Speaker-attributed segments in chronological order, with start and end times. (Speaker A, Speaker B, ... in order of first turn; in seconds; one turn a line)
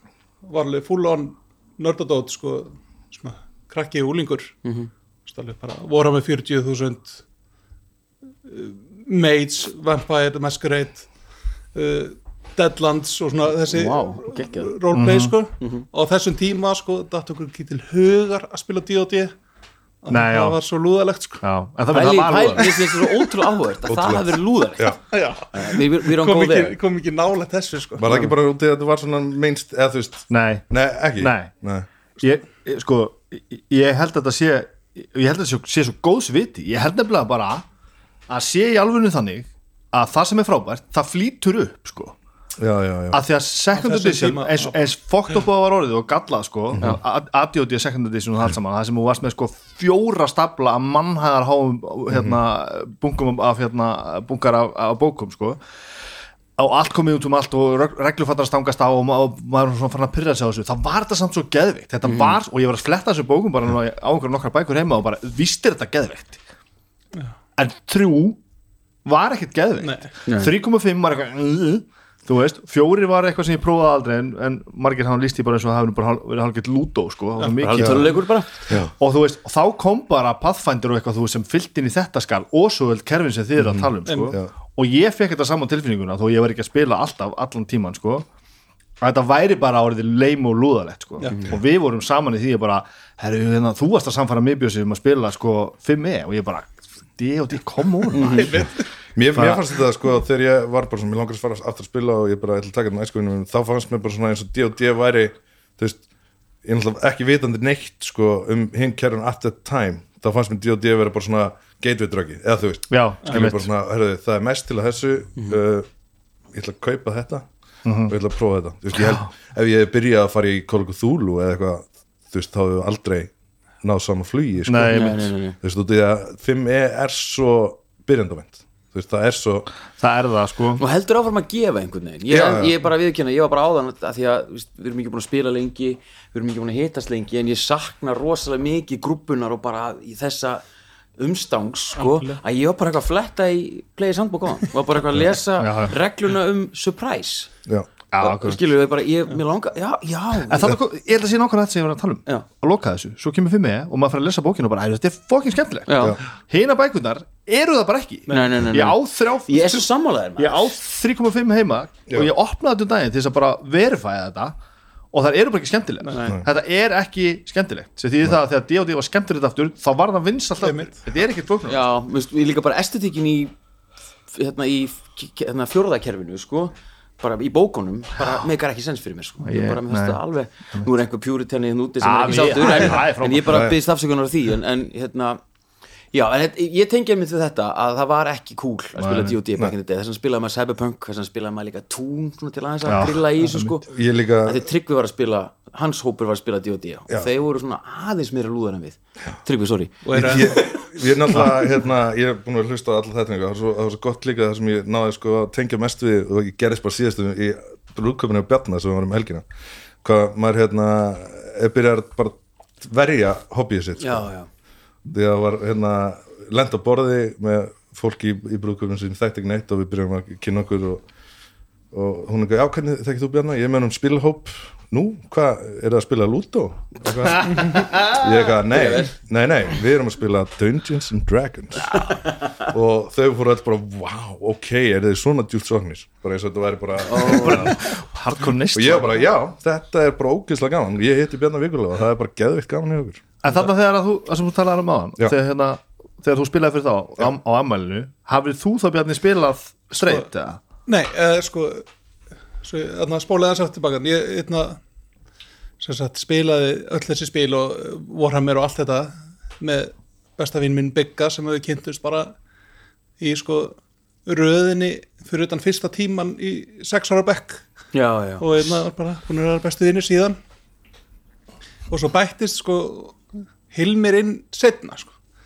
Speaker A: 0.4-4.5
Speaker B: 4.6-4.9
Speaker A: 5.2-7.2
Speaker A: 8.4-11.1
Speaker A: 11.7-19.3
Speaker B: 13.7-14.7
Speaker C: 14.9-15.4
Speaker B: 15.6-15.8
Speaker A: 20.0-21.4
Speaker C: 20.1-20.6
Speaker C: 21.4-22.8
Speaker B: 21.9-25.0
Speaker A: 22.6-23.3
Speaker D: 23.9-25.0
Speaker A: 25.1-28.1
Speaker B: 25.5-26.8
Speaker D: 28.0-31.9
Speaker C: 30.3-30.6
Speaker C: 31.2-31.5
Speaker C: 32.2-37.6
Speaker C: 38.3-42.1
Speaker D: 42.6-43.2
Speaker C: 43.1-55.6
Speaker A: 43.7-44.7
Speaker D: 52.1-52.4
Speaker C: 56.6-66.4
Speaker B: 62.0-62.4
Speaker C: 67.6-68.4
Speaker C: 69.0-78.2
Speaker A: 69.8-70.1
Speaker B: 70.2-70.5
Speaker B: 77.4-78.7
Speaker C: 79.0-88.2
Speaker D: 83.6-84.5
Speaker A: 84.0-84.4
Speaker C: 89.0-98.7
Speaker B: 91.2-91.5
Speaker B: 98.1-98.5
Speaker A: 98.3-98.8
Speaker D: 99.2-106.0
Speaker C: 99.3-99.7
Speaker D: 106.6-115.9
Speaker C: 112.9-113.7
Speaker D: 116.5-117.5
Speaker C: 117.8-118.1
Speaker D: 118.1-123.3
Speaker C: 119.0-119.2
Speaker D: 123.8-129.7
Speaker C: 124.6-125.3
Speaker B: 124.9-125.6
Speaker C: 130.0-130.8
Speaker B: 130.8-140.6
Speaker D: 132.3-132.8
Speaker B: 141.2-147.5
Speaker A: 141.9-142.4
Speaker C: 145.6-145.9
Speaker C: 148.1-148.6
Speaker B: 148.2-150.8
Speaker C: 150.4-159.9
Speaker B: 155.9-156.2
Speaker A: 158.3-158.6
Speaker B: 158.3-160.8
Speaker C: 160.4-164.6
Speaker C: 165.1-171.8
Speaker B: 166.1-166.3
Speaker A: 170.6-170.9
Speaker B: 171.7-173.5
Speaker B: 174.3-185.4
Speaker C: 179.4-180.2
Speaker C: 182.0-183.7
Speaker D: 183.5-183.8
Speaker B: 186.1-193.8
Speaker C: 189.0-189.4
Speaker C: 192.8-193.8
Speaker D: 193.8-194.6
Speaker B: 194.4-200.7
Speaker A: 200.0-200.7
Speaker D: 200.1-209.4
Speaker D: 210.0-214.3
Speaker B: 214.0-214.5
Speaker D: 215.1-221.0
Speaker D: 221.9-237.8
Speaker B: 228.6-229.1
Speaker B: 231.8-232.7
Speaker B: 237.1-237.7
Speaker C: 237.2-239.3
Speaker D: 238.7-243.2
Speaker C: 243.4-250.6
Speaker A: 250.0-250.2
Speaker A: 250.8-251.8
Speaker A: 252.6-254.8
Speaker A: 255.8-262.3
Speaker A: 263.2-267.6
Speaker B: 267.9-268.4
Speaker A: 268.4-270.4
Speaker A: 271.9-273.2
Speaker A: 273.7-275.1